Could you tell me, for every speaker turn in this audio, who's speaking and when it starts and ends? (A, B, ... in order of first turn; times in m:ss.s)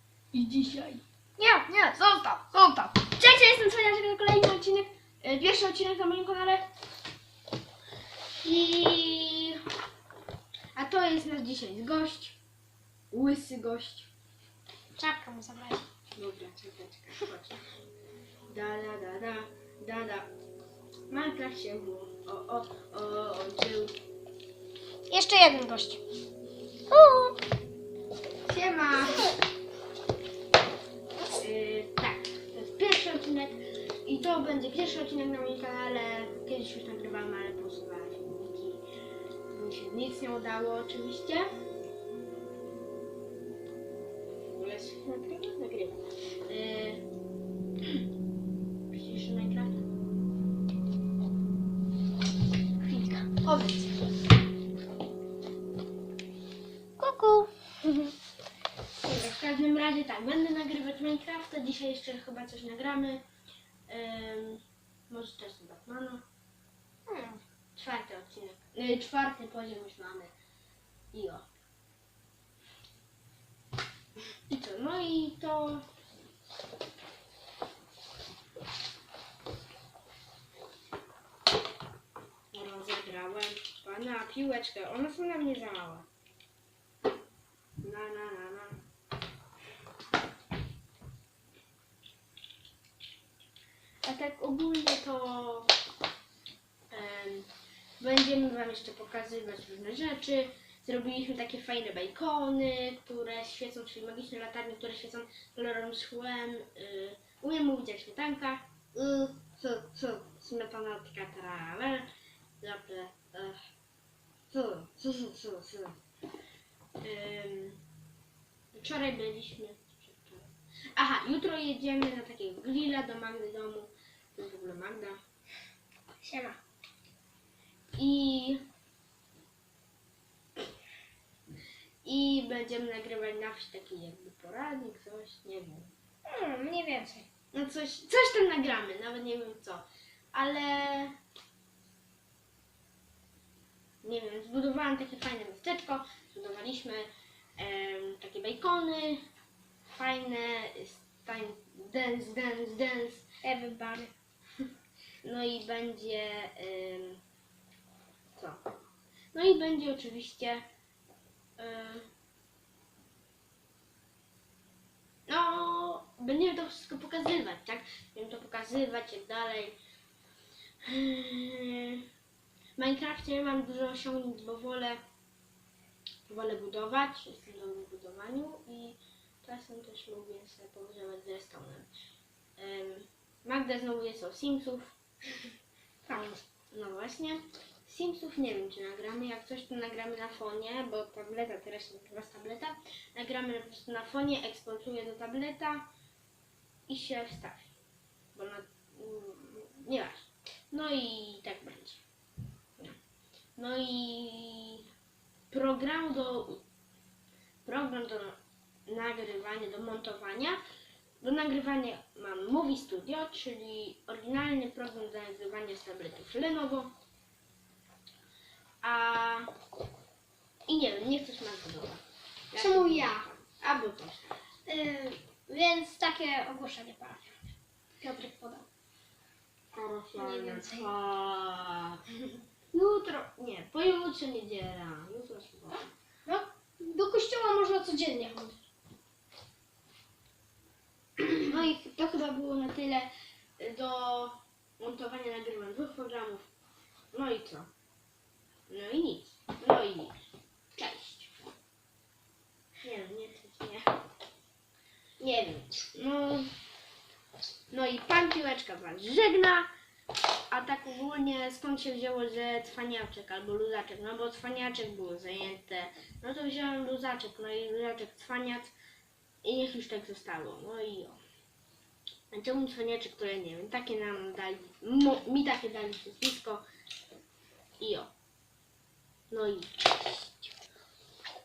0:00.3-0:06.6 A
0:08.4-0:09.6 A
0:10.7-0:12.4 A
0:13.1-0:14.1 A
0:15.0-0:15.8 B
0:16.1-0:17.6 A
0:18.5-0:20.3 A
0:21.1-0:24.0 A
0:25.1-0:26.0 B
0:26.9-0:27.4 B
0:28.4-0:29.3 A
0:31.4-0:38.8 A
0:39.5-0:41.5 A
0:44.5-0:47.0 A
0:48.9-0:49.8 A
0:52.8-0:53.5 B
0:57.0-0:58.1 B
0:59.0-1:03.2 A
1:03.9-1:06.2 A
1:07.1-1:07.4 B
1:07.7-1:10.3 A
1:11.1-1:11.4 A
1:14.5-1:15.8 A
1:22.5-1:26.1 A
1:27.8-1:28.8 A
1:34.0-1:35.7 A
1:36.9-1:37.5 A
1:38.0-1:52.1 A
1:52.6-1:53.6 A
1:54.5-1:56.0 A
1:57.0-1:57.8 A
1:58.7-2:05.2 A
2:06.2-2:06.6 B
2:08.0-2:08.6 A
2:12.0-2:15.9 A
2:16.2-2:17.3 B
2:17.5-2:21.2 A
2:24.0-2:29.2 A
2:29.9-2:33.3 A
2:33.4-2:34.1 B
2:35.2-2:37.2 A
2:39.3-2:40.6 A
2:41.6-2:42.1 A
2:45.3-2:49.8 A
2:50.8-2:52.0 A
2:52.8-2:55.0 A
2:56.3-3:01.9 A
3:02.6-3:05.0 A
3:06.0-3:15.8 A
3:16.9-3:17.7 A
3:18.3-3:22.0 A
3:23.6-3:24.8 A
3:25.5-3:26.6 A
3:27.6-3:30.6 A
3:31.2-3:36.9 A
3:38.8-3:39.5 A
3:40.7-3:44.3 A
3:42.5-3:43.2 B
3:44.6-3:47.3 B
3:48.0-3:48.7 B
3:49.7-3:52.0 A
3:50.2-3:50.9 B
3:52.7-3:55.8 A
3:56.2-3:58.6 B
4:01.2-4:06.5 A
4:07.1-4:07.7 A
4:08.7-4:10.1 A
4:10.7-4:11.3 A
4:12.8-4:13.9 A
4:15.2-4:16.5 A
4:17.7-4:19.7 A
4:20.5-4:28.7 A
4:29.4-4:31.2 A
4:32.3-4:36.6 A
4:37.8-4:38.1 A
4:39.3-4:40.5 A